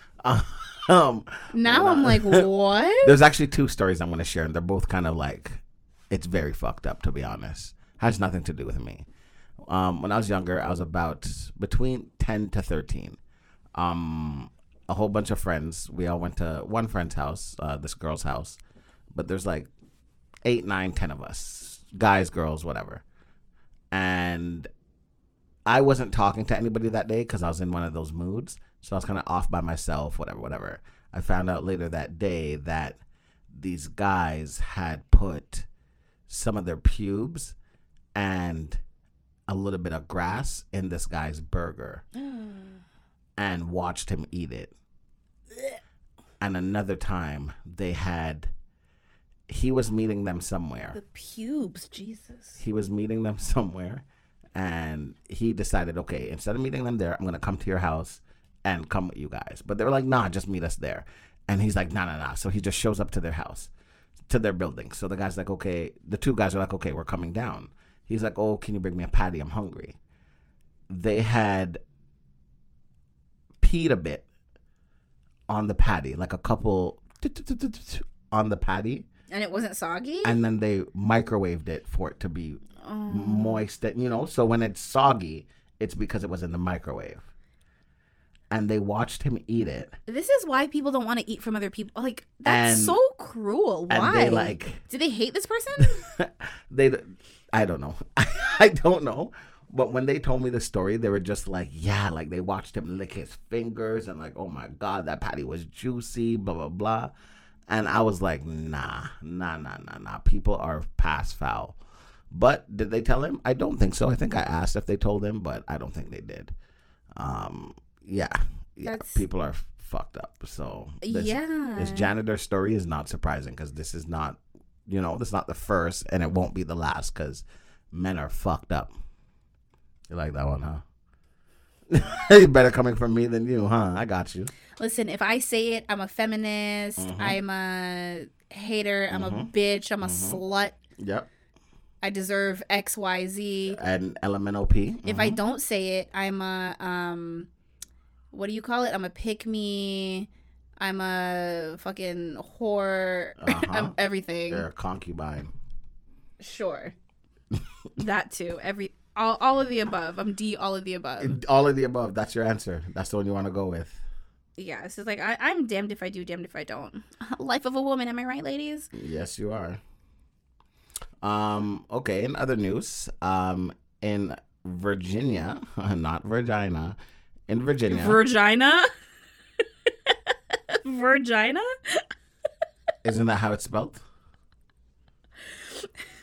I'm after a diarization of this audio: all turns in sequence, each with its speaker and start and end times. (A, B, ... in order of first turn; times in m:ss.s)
0:00.2-0:02.4 A
0:01.5-0:03.2 B
0:03.0-0:09.1 A
0:09.7-0:13.2 A
0:13.7-0:18.6 A
0:19.1-0:19.7 A
0:20.4-0:23.0 A
0:23.9-0:24.7 A
0:25.7-0:35.7 A
0:36.3-0:37.6 A
0:38.2-0:38.8 A
0:39.5-0:42.0 A
0:42.2-0:42.8 B
0:43.4-0:44.7 A
0:46.4-0:48.5 A
0:49.5-0:51.0 A
0:50.9-0:52.6 B
0:52.6-0:54.0 A
0:54.6-1:03.7 A
1:04.3-1:10.0 A
1:10.9-1:11.8 A
1:13.6-1:14.2 A
1:15.5-1:19.1 A
1:19.3-1:20.4 B
1:20.2-1:27.2 A
1:22.8-1:23.6 B
1:28.5-1:30.0 A
1:30.1-1:36.1 B
1:32.4-1:33.0 A
1:33.9-1:34.8 A
1:35.8-1:47.1 A
1:47.7-1:51.8 A
1:52.3-1:56.5 A
1:57.1-2:08.9 A
1:58.8-1:59.2 B
2:01.0-2:02.1 B
2:10.1-2:10.8 A
2:11.9-2:14.5 A
2:14.8-2:20.7 B
2:17.0-2:17.4 A
2:19.1-2:19.5 A
2:20.0-2:20.4 A
2:21.0-2:21.3 A
2:22.0-2:23.8 B
2:23.7-2:25.4 A
2:25.0-2:27.5 B
2:28.3-2:30.3 B
2:30.8-2:34.7 B
2:33.4-2:34.0 A
2:34.5-2:35.5 A
2:36.4-2:36.9 B
2:38.0-2:41.4 B
2:41.2-2:44.0 A
2:44.6-2:48.9 B
2:48.9-2:49.8 A
2:51.2-2:58.2 A
2:57.9-2:58.9 B
3:00.1-3:02.1 B
3:03.0-3:04.0 A